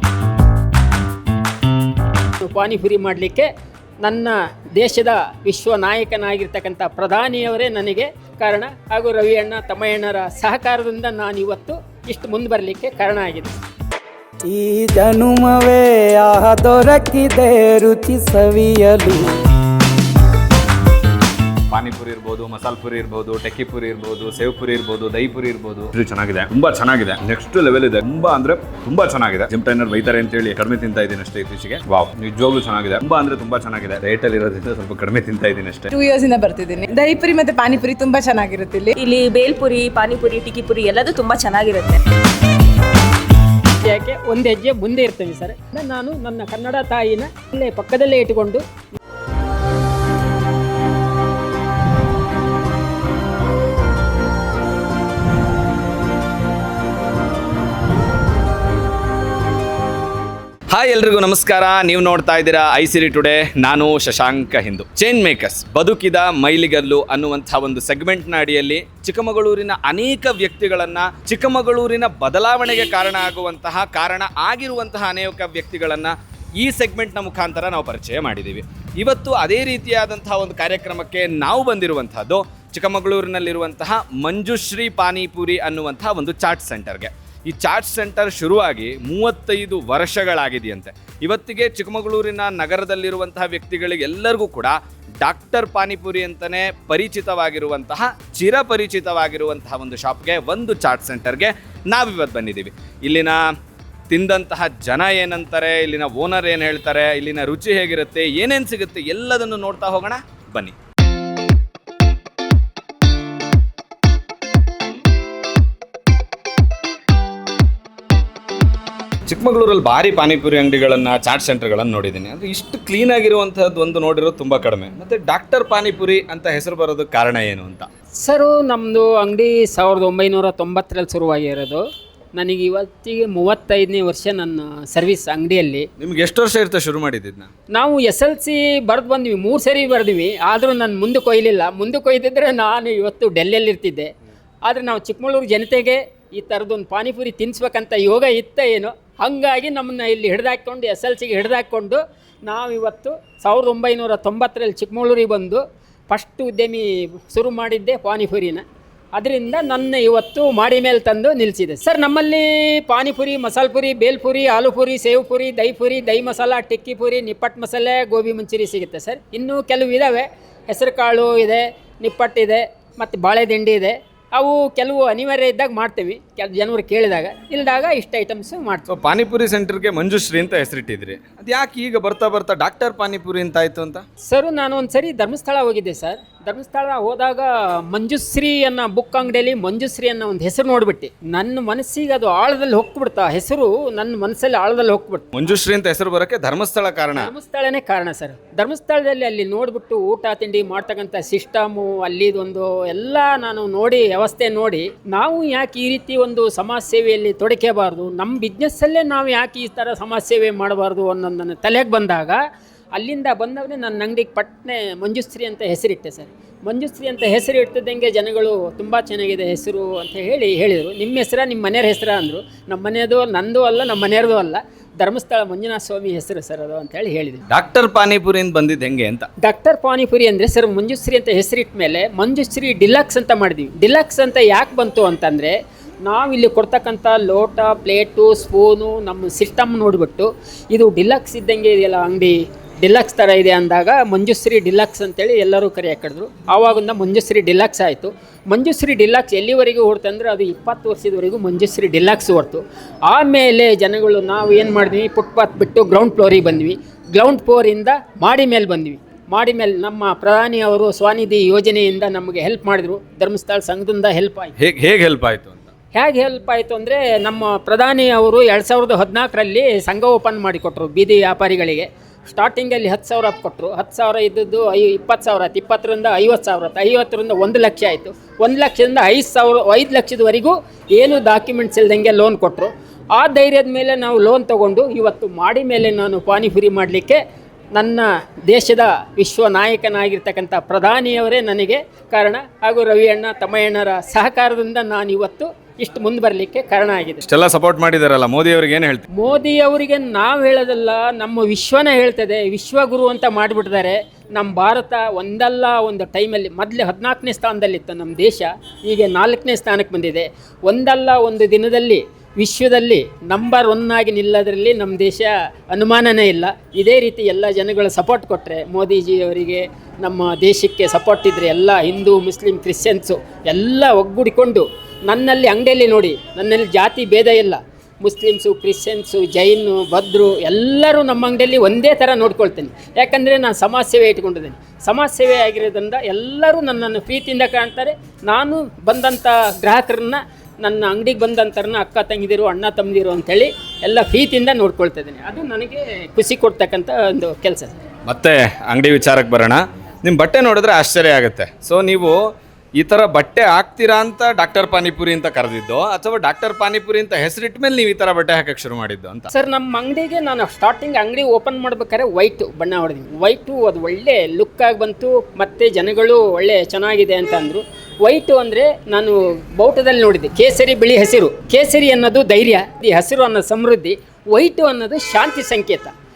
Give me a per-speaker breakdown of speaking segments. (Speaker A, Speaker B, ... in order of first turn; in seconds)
Speaker A: 2.4-3.5, 4.0-13.6, 43.8-48.6, 128.2-131.8, 132.3-135.9, 137.7-144.1, 144.6-158.6, 159.1-178.8, 184.2-195.3, 197.2-212.4, 212.9-227.4, 229.4-264.5, 265.9-287.2, 287.7-297.2, 299.1-347.7, 359.3-375.9
Speaker B: 14.4-19.4
Speaker C: 21.7-35.9, 60.7-103.4, 104.1-110.7, 119.3-127.9, 136.0-137.5, 178.9-184.0, 195.3-197.3, 227.5-229.3, 264.6-265.7, 297.2-299.0, 348.1-359.3
Speaker D: 35.9-39.0
Speaker E: 39.0-42.0